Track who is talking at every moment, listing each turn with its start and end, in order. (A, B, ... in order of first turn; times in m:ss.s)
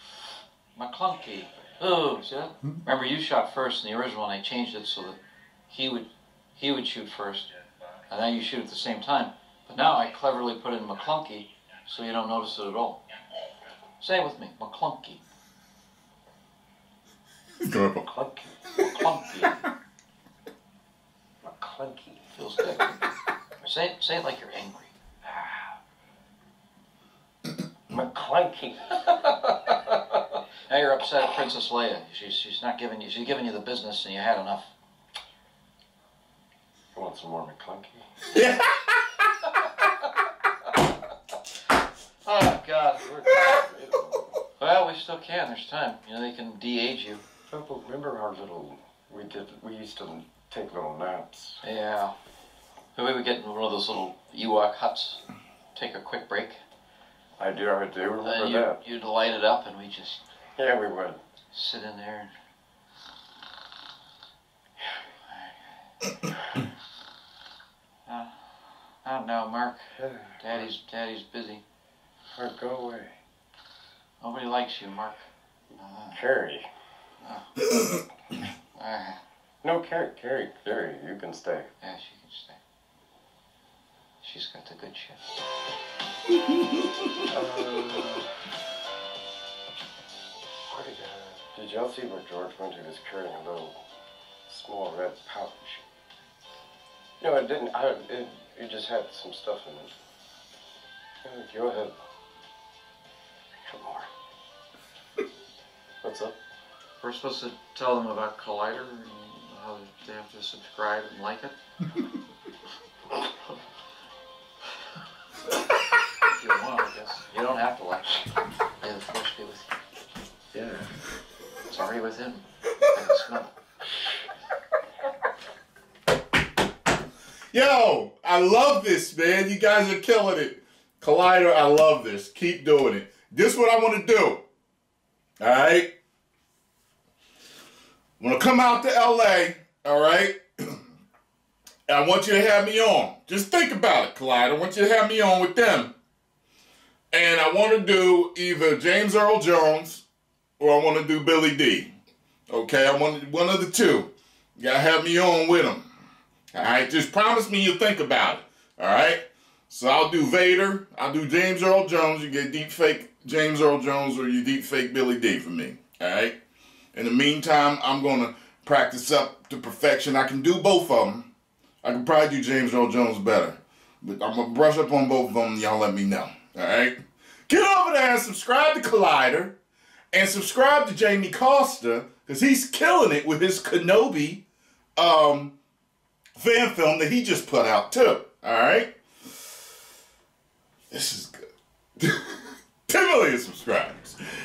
0:00.8-0:07.5 A
0:08.1-0:13.0 A
0:14.0-0:15.2 A
0:17.6-0:18.1 B
0:18.0-0:18.6 C
0:18.8-0:19.6 A
0:21.4-0:22.3 C
0:22.4-0:23.0 A
0:23.6-0:24.9 A
0:25.2-0:25.8 C
0:27.9-0:29.0 C
0:29.0-0:34.7 A
0:37.0-0:38.0 C
0:38.3-0:39.5 B
0:42.2-0:43.1 A
0:43.0-0:44.4 C
0:43.3-0:43.6 B
0:44.6-0:47.2 A
0:47.5-0:51.6 C
0:51.6-0:52.1 A
0:53.0-0:55.2 A
0:55.8-0:56.6 A
0:57.4-0:58.8 C
0:58.2-1:00.2 A
1:00.6-1:01.2 C
1:01.5-1:02.3 A
1:05.3-1:05.6 A
1:08.1-1:11.6 A
1:10.0-1:10.4 C
1:12.3-1:13.2 C
1:14.2-1:16.2 A
1:16.1-1:16.7 C
1:17.2-1:17.5 A
1:18.8-1:19.2 A
1:19.6-1:21.7 C
1:21.8-1:22.6 A
1:24.2-1:25.2 A
1:27.3-1:28.3 C
1:30.7-1:33.8 C
1:34.5-1:35.9 C
1:37.2-1:39.9 C
1:41.2-1:42.0 C
1:43.6-1:44.1 C
1:46.0-1:46.4 C
1:47.0-1:51.6 A
1:56.2-1:58.3 A
1:58.8-1:59.8 A
2:00.5-2:00.9 C
2:01.7-2:03.5 A
2:07.5-2:14.4 B
2:15.4-2:15.9 B
2:18.2-2:20.8 B
2:21.9-2:25.9 B
2:27.1-2:30.0 B
2:30.6-2:31.9 B
2:32.5-2:35.9 B
2:36.5-2:46.4 B
2:46.9-2:51.3 B
2:51.8-2:57.0 B
2:57.5-2:59.6 B
3:00.1-3:04.4 B
3:05.0-3:05.5 B
3:06.4-3:08.9 B
3:10.9-3:11.4 B
3:12.0-3:14.2 B